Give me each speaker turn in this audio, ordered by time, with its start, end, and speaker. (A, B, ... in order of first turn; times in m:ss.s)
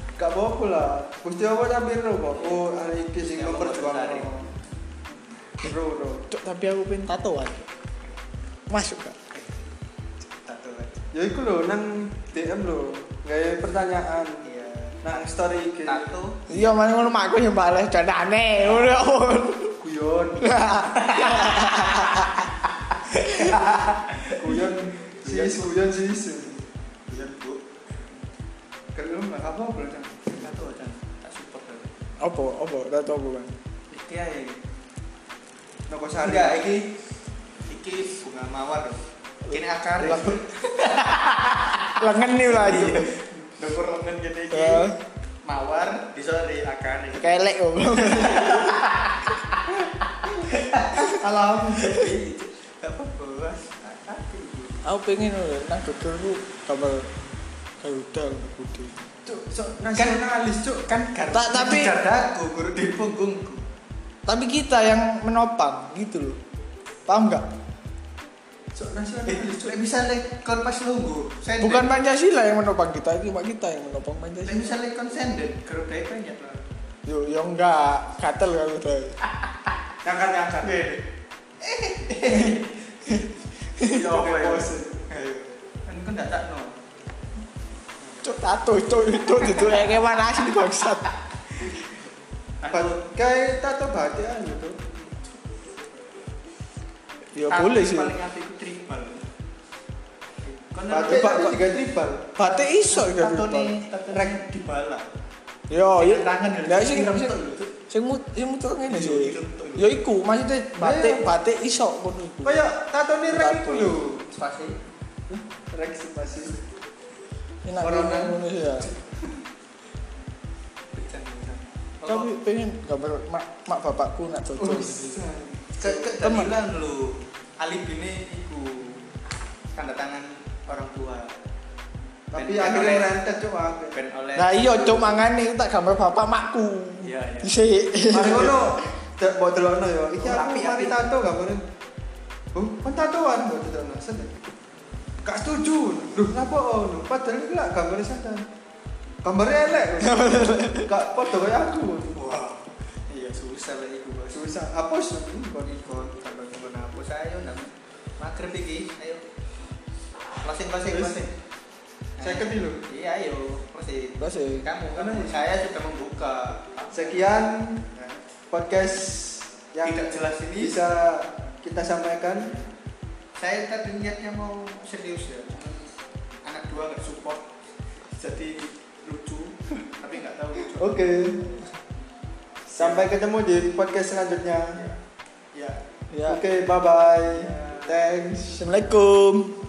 0:00.2-0:04.5 A
0:03.3-0:04.4 B
0:05.6-0:06.3 A
0:06.3-0:07.7 C
0:08.7-0:09.2 C
0:09.3-0:09.6 B
0:10.4-0:11.0 B
0:11.1-0:14.4 A
0:14.4-0:16.7 B
0:15.0-0:16.2 A
0:16.5-0:19.8 C
0:19.8-0:20.6 A
0:20.4-0:22.3 C
0:20.9-0:22.3 B
0:22.9-0:27.7 B
0:23.2-0:23.6 C
0:24.3-0:26.6 A
0:29.0-0:30.2 A
0:30.3-0:31.9 B
0:32.2-0:33.6 C
0:33.9-0:34.6 B
0:35.9-0:36.7 A
0:36.2-0:36.9 B
0:37.7-0:47.3 B
0:39.5-0:40.4 C
0:42.0-0:43.1 C
0:44.5-0:45.0 C
0:47.1-0:48.9 C
0:48.0-0:49.6 B
0:50.4-0:54.9 B
0:51.2-0:51.8 A
0:51.8-0:52.1 C
0:54.8-0:57.1 C
0:57.8-0:59.1 C
0:59.2-1:00.8 A
1:00.0-1:00.2 B
1:00.9-1:03.6 B
1:01.3-1:02.0 C
1:04.3-1:06.4 C
1:07.1-1:07.5 C
1:08.8-1:09.8 A
1:09.3-1:11.9 B
1:11.6-1:14.8 C
1:14.4-1:16.6 B
1:17.1-1:19.2 C
1:20.0-1:20.8 A
1:20.6-1:21.0 B
1:21.6-1:23.2 B
1:23.8-1:24.0 C
1:23.8-1:26.7 B
1:23.9-1:25.0 A
1:28.2-1:31.1 C
1:29.3-1:29.8 B
1:32.6-1:33.0 B
1:32.7-1:34.9 A
1:37.3-1:38.1 C
1:37.5-1:39.3 B
1:40.4-1:41.4 B
1:40.9-1:42.3 A
1:41.0-1:41.6 C
1:42.4-1:43.7 C
1:42.4-1:45.1 B
1:44.1-1:44.4 A
1:45.7-1:52.6 C
1:46.0-1:47.7 B
1:48.9-1:50.0 B
1:50.8-1:51.2 A
1:52.4-1:54.3 A
1:53.3-1:54.0 C
1:54.3-1:54.8 B
1:55.3-1:56.6 A
1:57.6-1:58.9 C
1:57.8-1:58.9 A
2:00.9-2:02.3 B
2:02.0-2:05.2 C
2:04.6-2:06.2 A
2:05.8-2:09.1 B
2:06.2-2:06.5 C
2:09.7-2:11.4 B
2:12.3-2:14.0 A
2:12.4-2:13.1 B
2:13.9-2:15.2 B
2:14.4-2:18.6 C
2:17.0-2:17.5 B
2:18.1-2:21.6 A
2:20.2-2:21.0 B
2:22.5-2:24.3 A
2:25.2-2:28.4 A
2:29.2-2:32.3 A
2:30.0-2:30.9 C
2:32.1-2:34.4 B
2:34.3-2:35.8 A
2:35.6-2:39.2 B
2:40.4-2:41.3 B
2:40.9-2:41.2 A
2:42.2-2:47.3 B
2:42.2-2:42.8 A
2:44.2-2:44.7 C
2:44.9-2:45.4 A
2:46.9-2:47.8 A
2:47.9-2:48.2 B
2:48.5-2:52.6 A
2:49.8-2:50.8 B
2:53.4-2:55.9 B
2:56.4-2:57.5 B
2:58.1-3:01.1 B
3:00.8-3:01.5 A
3:02.7-3:04.8 A
3:02.8-3:03.1 B
3:05.5-3:05.8 B
3:06.1-3:06.4 C
3:06.3-3:08.6 A
3:07.3-3:08.0 B
3:08.6-3:09.6 C